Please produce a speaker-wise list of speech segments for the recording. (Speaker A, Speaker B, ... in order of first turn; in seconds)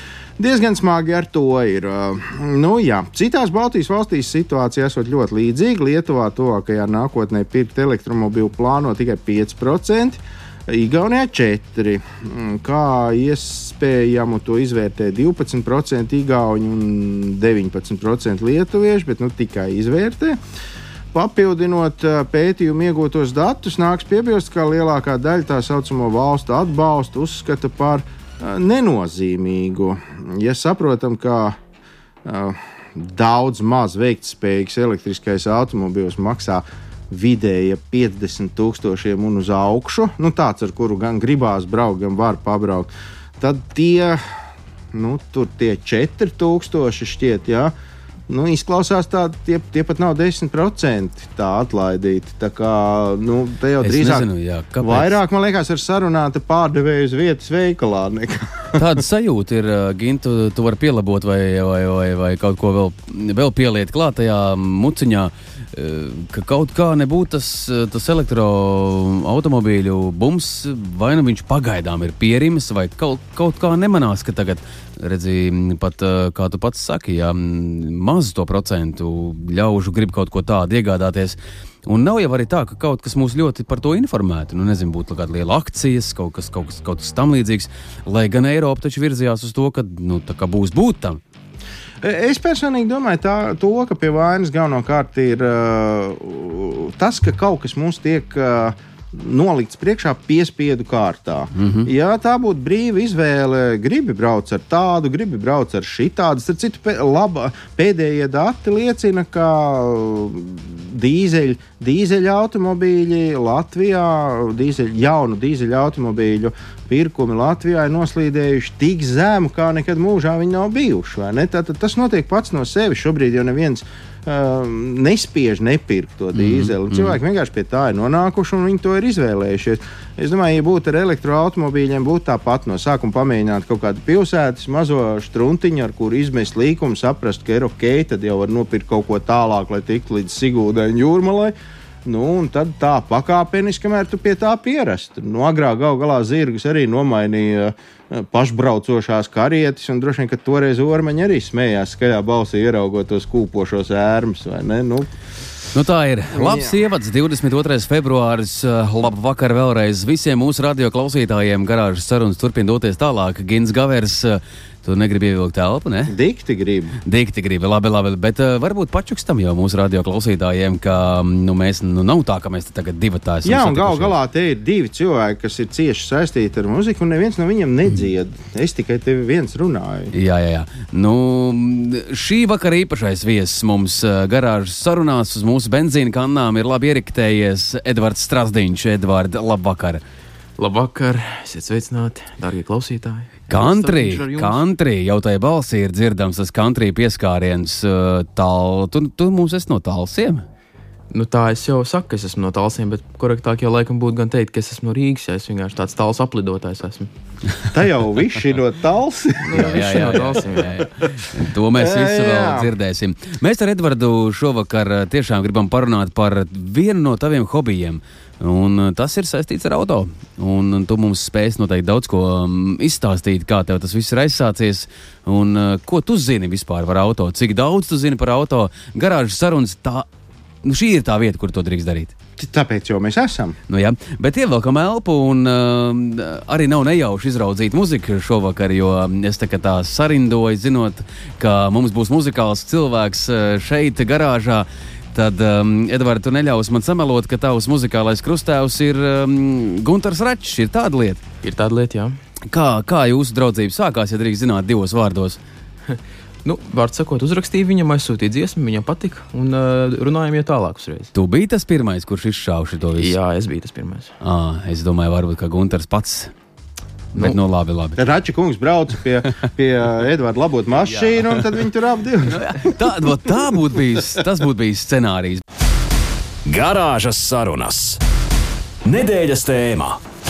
Speaker A: 0.4-20.4, 21.1-31.6, 32.2-44.2, 44.9-47.7, 48.3-54.3, 54.8-58.8, 92.0-141.5, 142.1-155.1, 156.3-156.8, 166.1-167.0, 173.4-180.1, 207.7-209.7, 211.8-212.7, 232.4-233.6, 268.0-272.7
Speaker B: 53.8-55.2, 58.8-91.2, 101.6-101.9, 126.3-127.2, 155.7-166.1, 167.1-174.1, 180.1-190.0, 193.5-200.4, 209.5-230.1, 230.6-232.1, 233.7-251.2, 252.5-255.4, 261.1-263.2, 264.2-266.3, 267.1-268.0, 270.9-271.4, 272.2-275.4
Speaker C: 190.6-194.6, 201.1-207.1, 209.4-210.9, 251.4-252.2, 255.9-261.1, 263.0-264.1
Speaker D: 276.5-278.0, 278.9-280.0